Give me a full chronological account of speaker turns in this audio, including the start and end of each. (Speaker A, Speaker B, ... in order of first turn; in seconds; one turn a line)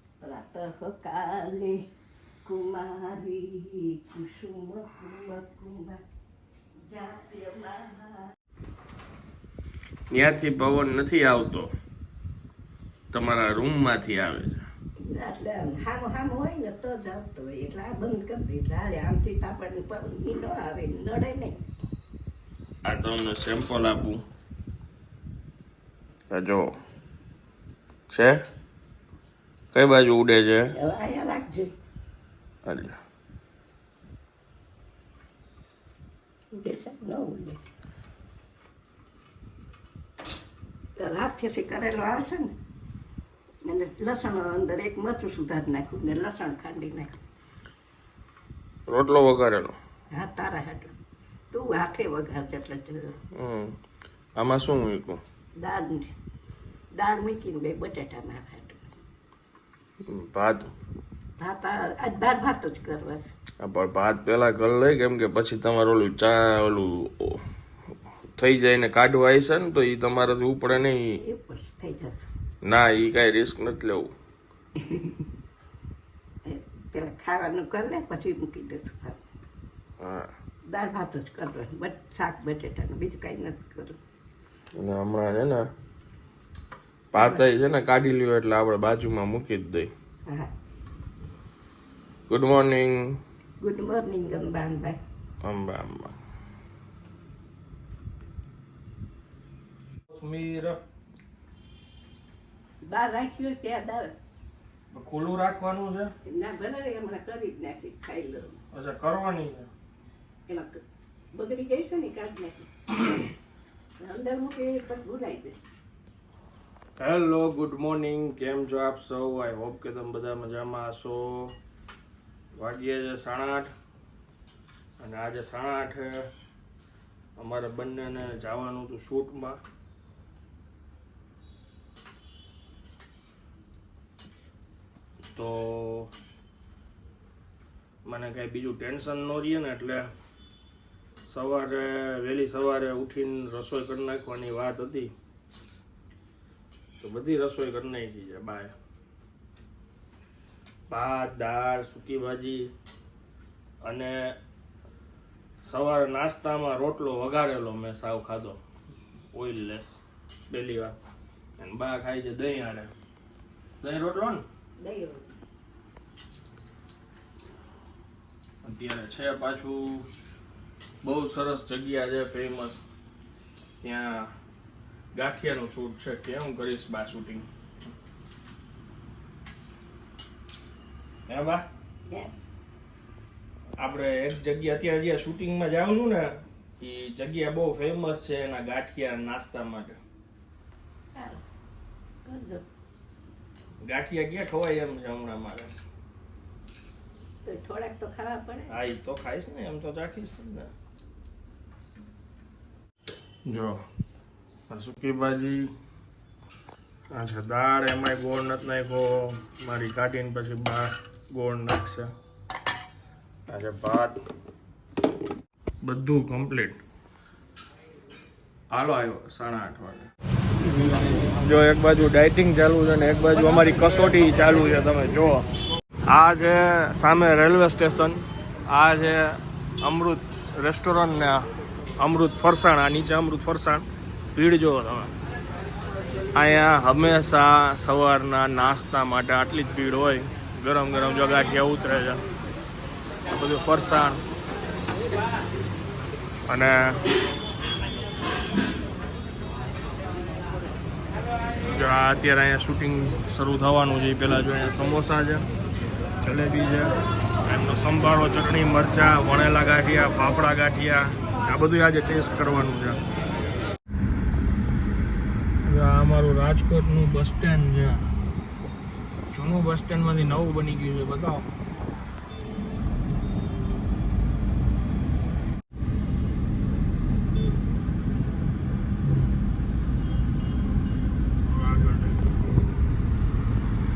Speaker A: 0.2-1.8
Speaker A: 2.4-6.0
Speaker A: 6.8-8.3
Speaker B: 10.1-11.7
Speaker B: 13.1-14.7
Speaker A: 15.0-21.6
Speaker B: 22.8-24.2
Speaker B: 26.3-26.8
Speaker B: 28.1-28.4
Speaker B: 29.7-30.7
Speaker A: 30.7-31.7
Speaker B: 32.6-33.0
Speaker A: 36.5-37.6
Speaker A: 41.0-42.5
Speaker A: 43.6-47.2
Speaker B: 48.9-49.8
Speaker A: 50.1-50.9
Speaker A: 51.5-53.2
Speaker B: 53.4-53.8
Speaker B: 54.4-55.2
Speaker A: 55.6-56.1
Speaker A: 56.9-59.0
Speaker B: 60.1-60.7
Speaker A: 61.4-63.3
Speaker B: 63.6-67.4
Speaker B: 68.4-71.2
Speaker A: 71.2-72.3
Speaker B: 72.6-74.1
Speaker A: 74.8-75.1
Speaker A: 76.5-79.2
Speaker B: 80.0-80.3
Speaker A: 80.7-84.0
Speaker B: 84.8-85.7
Speaker B: 87.1-89.9
Speaker A: 87.2-87.4
Speaker B: 92.3-93.2
Speaker A: 93.6-95.0
Speaker B: 95.4-96.1
Speaker B: 100.1-100.8
Speaker A: 102.9-104.1
Speaker B: 104.9-106.1
Speaker A: 106.2-108.6
Speaker B: 108.7-109.7
Speaker A: 110.5-110.8
Speaker A: 111.3-112.7
Speaker A: 114.0-115.6
Speaker B: 117.0-121.5
Speaker B: 122.5-123.7
Speaker B: 125.0-126.3
Speaker B: 127.4-129.6
Speaker B: 135.3-136.1
Speaker B: 138.1-140.1
Speaker B: 141.3-145.1
Speaker B: 147.0-148.7
Speaker B: 150.9-152.7
Speaker B: 153.8-154.4
Speaker B: 155.6-158.6
Speaker B: 159.3-161.0
Speaker B: 161.6-162.9
Speaker B: 163.8-164.4
Speaker A: 164.8-165.3
Speaker B: 168.6-170.1
Speaker B: 171.0-172.8
Speaker B: 173.8-174.3
Speaker B: 175.1-177.5
Speaker B: 181.3-181.7
Speaker B: 183.8-190.0
Speaker A: 191.2-191.4
Speaker A: 192.2-192.7
Speaker B: 193.8-195.7
Speaker A: 197.4-198.8
Speaker B: 198.7-200.7
Speaker B: 203.5-203.8
Speaker B: 204.7-205.7
Speaker B: 207.1-212.1
Speaker B: 213.5-214.2
Speaker B: 215.8-216.8
Speaker B: 218.7-220.1
Speaker B: 220.8-225.5
Speaker B: 226.1-231.4
Speaker B: 232.0-235.1
Speaker B: 236.3-242.2
Speaker B: 243.3-244.2
Speaker B: 246.5-246.9
Speaker B: 251.7-255.4
Speaker B: 256.2-263.0
Speaker B: 265.7-268.1
Speaker B: 269.3-271.5
Speaker B: 281.5-282.3